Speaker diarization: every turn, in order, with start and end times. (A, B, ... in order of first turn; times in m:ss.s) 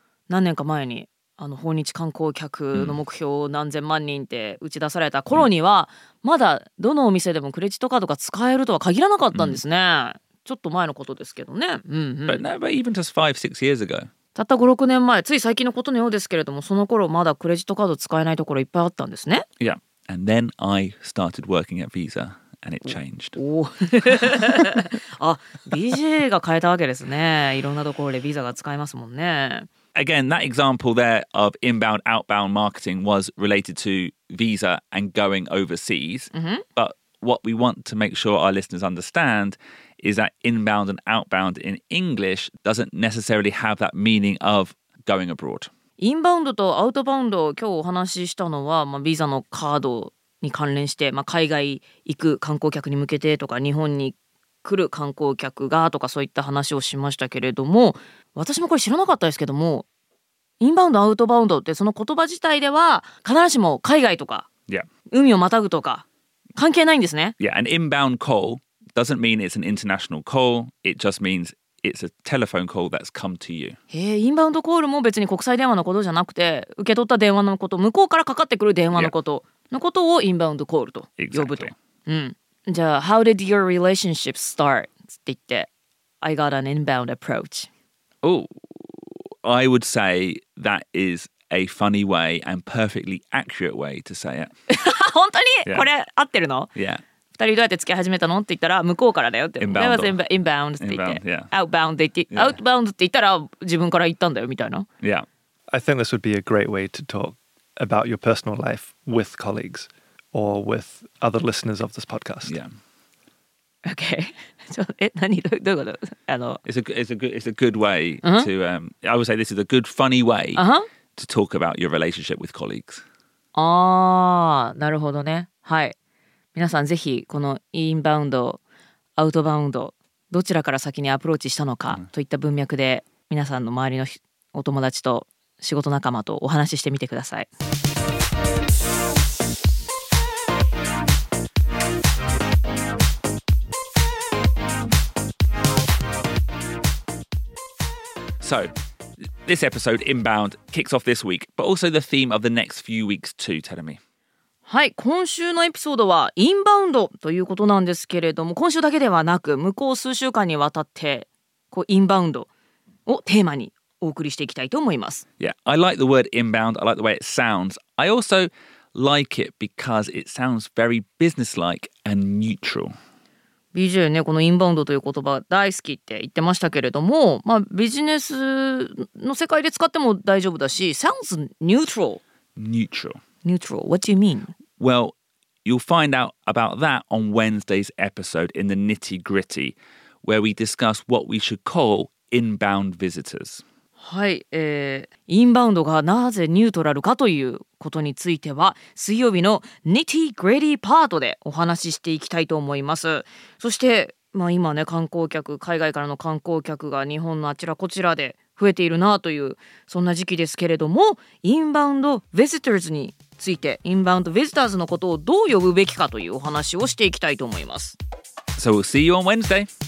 0:00.3-0:12.4 A
0:09.3-0:09.6 B
0:12.3-0:14.1 B
0:14.4-0:19.5 A
0:19.6-0:23.4 B
0:23.4-0:29.7 A
0:30.0-0:45.7 B
0:36.3-0:36.6 A
0:46.0-0:59.8 A
1:00.6-1:04.5 A
1:05.1-1:06.0 A
1:06.6-1:07.4 A
1:07.4-1:13.8 B
1:13.9-1:25.7 A
1:21.2-1:21.7 B
1:26.2-1:27.7 A
1:28.2-1:34.5 B
1:34.7-1:36.7 A
1:36.8-1:37.0 B
1:37.4-1:44.9 A
1:39.6-1:40.2 B
1:40.8-1:41.5 B
1:42.3-1:42.6 B
1:45.7-1:52.6 C
1:52.4-1:52.7 B
1:53.8-1:56.6 A
1:56.6-2:00.6 B
1:58.2-1:58.5 A
2:00.6-2:00.9 A
2:01.2-2:03.0 B
2:03.6-2:06.0 A
2:06.6-2:08.6 A
2:09.2-2:17.5 A
2:28.4-2:28.7 B
2:29.4-2:34.0 B
2:34.7-2:42.5 A
2:43.1-2:45.2 A
2:45.4-2:52.9 B
2:53.7-3:02.2 A
3:02.6-3:03.2 B
3:03.4-3:04.5 A
3:04.8-3:13.6 B
3:14.0-3:38.0 A
3:38.6-3:39.7 B